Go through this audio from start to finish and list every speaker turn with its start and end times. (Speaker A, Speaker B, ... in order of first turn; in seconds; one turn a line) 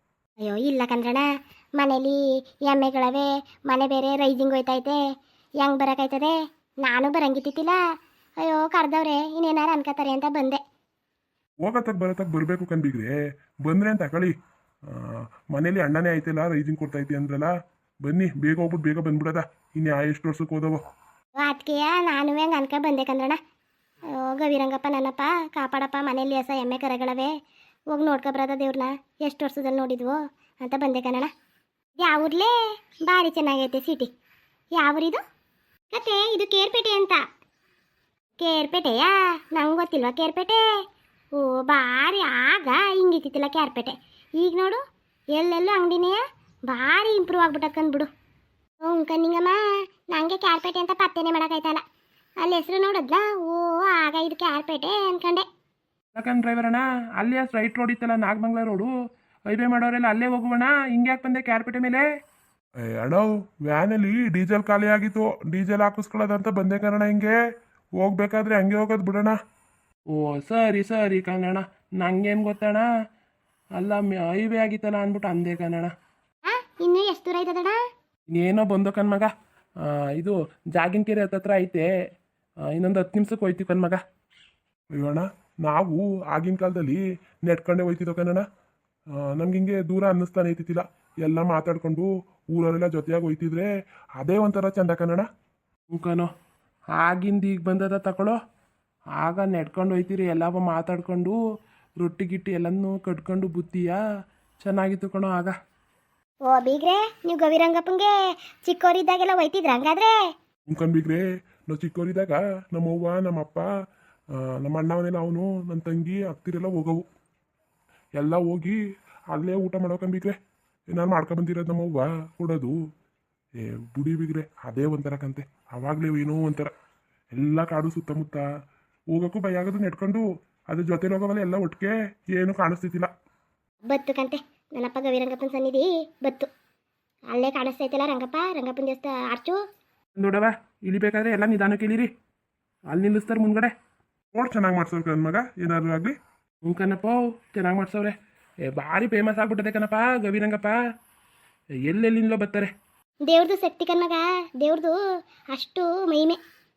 Speaker A: 0.4-5.0
Speaker A: 5.6-7.8
Speaker A: 8.4-10.6
Speaker B: 11.6-13.1
Speaker B: 13.7-14.3
Speaker B: 14.9-17.5
Speaker B: 18.0-20.8
Speaker A: 21.4-23.4
Speaker A: 24.1-27.3
Speaker A: 27.9-31.3
Speaker A: 32.0-34.1
Speaker A: 34.8-35.2
Speaker A: 35.9-37.2
Speaker A: 38.4-40.6
Speaker A: 41.4-44.8
Speaker A: 45.4-48.1
Speaker A: 48.8-51.8
Speaker A: 52.4-55.5
Speaker C: 56.1-58.9
Speaker C: 59.5-62.0
Speaker B: 62.8-67.4
Speaker B: 68.0-69.4
Speaker C: 70.1-72.9
Speaker C: 73.8-75.9
Speaker A: 76.5-77.8
Speaker C: 78.3-79.3
Speaker C: 79.8-81.9
Speaker C: 82.7-84.0
Speaker B: 85.0-88.4
Speaker B: 89.3-95.3
Speaker C: 95.9-96.3
Speaker C: 97.0-98.4
Speaker C: 99.2-101.4
Speaker C: 102.0-104.0
Speaker C: 104.6-105.5
Speaker A: 106.5-108.2
Speaker A: 108.7-110.1
Speaker B: 110.7-113.7
Speaker B: 114.3-117.0
Speaker B: 118.2-118.8
Speaker B: 119.3-120.3
Speaker B: 120.9-122.8
Speaker B: 123.6-126.7
Speaker B: 127.3-128.4
Speaker B: 129.1-133.1
Speaker A: 133.8-136.5
Speaker A: 137.3-139.6
Speaker C: 140.2-142.1
Speaker C: 142.9-143.7
Speaker B: 144.3-146.2
Speaker C: 146.7-148.2
Speaker C: 148.7-150.8
Speaker C: 151.8-152.7
Speaker A: 153.3-155.0
Speaker A: 155.5-156.4